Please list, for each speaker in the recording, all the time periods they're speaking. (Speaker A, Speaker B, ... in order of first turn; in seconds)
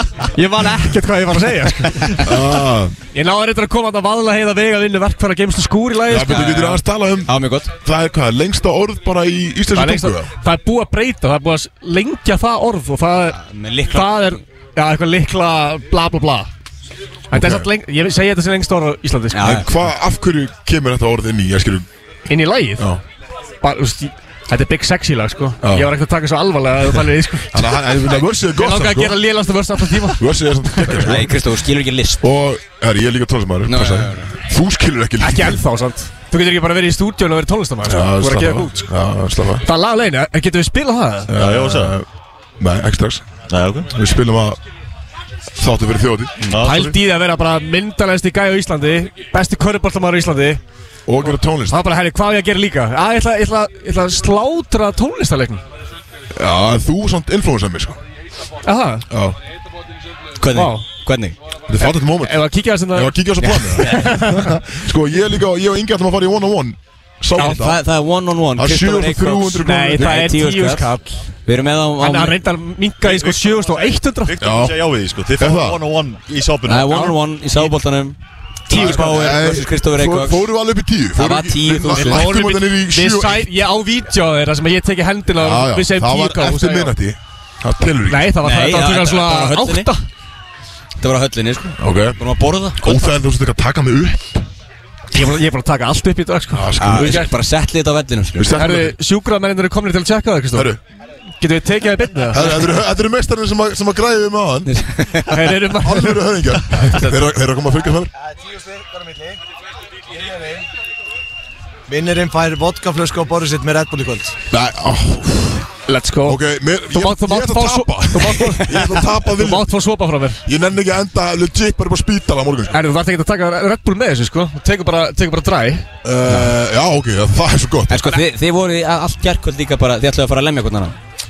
Speaker A: 0.3-2.3, 3.1-6.8, 9.7-16.5, 17.3-19.6, 22.3-22.9, 23.6-27.7, 28.5-31.0, 35.2-38.9, 39.6-41.3, 46.6-50.6, 51.2-55.6, 58.6-59.0, 60.5-60.9, 61.8-64.6, 67.4-67.6, 69.7-71.2, 72.0-74.4, 78.7-79.5, 81.9-86.9, 88.1-90.0, 95.1-96.7, 98.5-100.7, 101.4-102.4, 105.3-106.2, 115.9-120.4, 122.7-125.9
Speaker B: 2.2-3.0, 6.1-10.3, 17.3-17.7, 19.4-21.9, 25.6-25.9, 27.5-29.2, 30.2-31.3, 32.2-35.6, 37.9-39.7, 41.3-42.1, 42.6-43.3, 43.9-44.6, 45.6-46.4, 51.1-51.8, 56.3-58.0, 59.1-59.4, 61.7-67.8, 68.6-70.4, 74.4-74.8, 75.4-75.8, 78.7-83.5, 85.4-88.4, 91.8-92.2, 92.7-94.5, 96.5-97.3, 98.3-99.0, 100.5-100.8, 102.3-104.7, 105.8-108.1, 114.5-115.7, 116.2-119.7, 120.5-122.8, 126.0-128.2
Speaker C: 6.3-7.7, 13.4-14.4, 19.3-19.7, 31.0-32.2, 33.7-34.3, 60.4-61.4, 63.4-64.1, 67.4-70.9, 71.5-72.4, 76.7-78.2, 78.7-80.5, 81.2-82.4, 88.4-89.9, 91.0-93.1, 96.8-98.6, 104.7-105.5, 126.3-126.5, 127.9-131.0
Speaker D: 41.3-42.0, 43.5-43.9, 46.4-47.0, 73.0-77.2, 78.8-79.2
Speaker E: 108.4-109.4, 110.2-110.6, 111.9-114.4